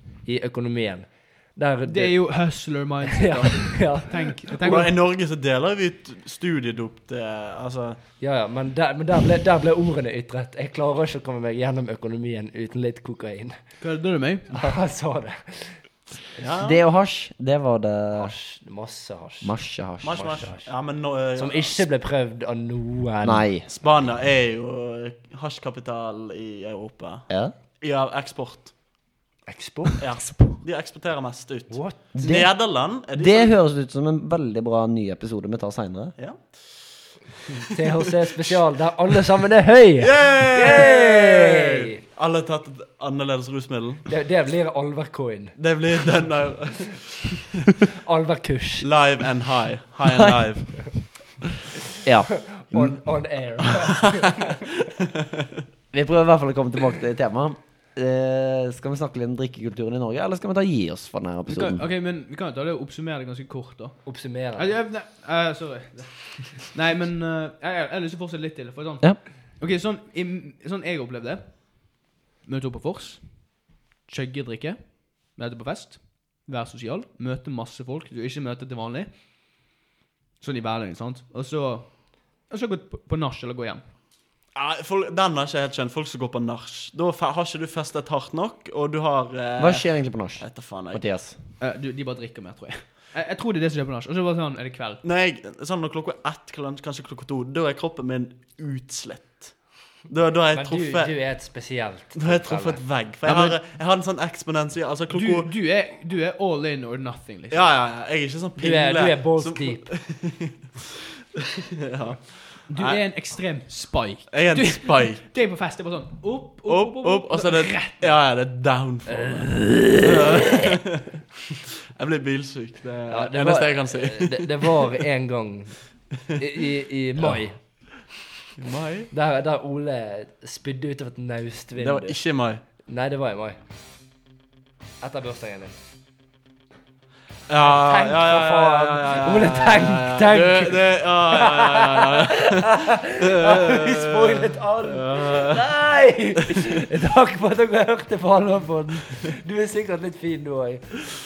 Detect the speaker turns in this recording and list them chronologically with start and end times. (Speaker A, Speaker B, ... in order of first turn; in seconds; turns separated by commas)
Speaker A: 0.2-2.3, Speaker B: 1.9-5.0, Speaker A: 3.1-4.9, Speaker C: 4.6-8.0, Speaker A: 8.2-13.6, Speaker B: 13.8-14.5, Speaker A: 14.5-15.8, Speaker C: 16.4-16.8, Speaker D: 16.6-18.4, Speaker A: 18.1-19.6, Speaker D: 19.4-20.3, Speaker C: 20.0-21.9, Speaker A: 20.1-20.7, Speaker A: 21.4-23.5, Speaker D: 23.2-23.7, Speaker C: 23.7-27.3, Speaker C: 27.8-28.7, Speaker A: 29.5-30.0, Speaker C: 30.0-33.5, Speaker A: 31.7-32.0, Speaker D: 32.1-32.6, Speaker D: 33.1-36.2, Speaker C: 36.2-37.1, Speaker A: 37.6-42.0, Speaker C: 40.0-44.1, Speaker A: 44.1-45.6, Speaker C: 45.6-47.5, Speaker A: 48.0-48.9, Speaker C: 48.8-50.8, Speaker D: 50.0-50.4, Speaker D: 52.0-53.0, Speaker A: 52.6-54.5, Speaker D: 55.9-61.8, Speaker B: 61.5-79.1, Speaker A: 64.0-64.8, Speaker B: 80.4-83.8, Speaker C: 84.5-91.0, Speaker D: 89.6-91.4, Speaker B: 91.6-95.0, Speaker C: 95.0-101.3, Speaker A: 100.5-102.8, Speaker C: 102.1-105.5, Speaker B: 103.2-103.6, Speaker B: 105.1-107.7, Speaker C: 107.5-110.5, Speaker A: 108.6-109.9, Speaker C: 111.8-113.0, Speaker B: 112.7-118.1, Speaker C: 114.3-115.3, Speaker C: 116.7-121.0, Speaker A: 119.1-120.4, Speaker C: 122.0-124.9, Speaker A: 123.1-125.8, Speaker A: 126.4-127.6, Speaker C: 128.6-129.1, Speaker A: 129.1-132.2, Speaker C: 131.8-132.6, Speaker A: 132.9-133.6, Speaker A: 135.0-135.7, Speaker C: 137.5-145.7, Speaker A: 137.7-151.1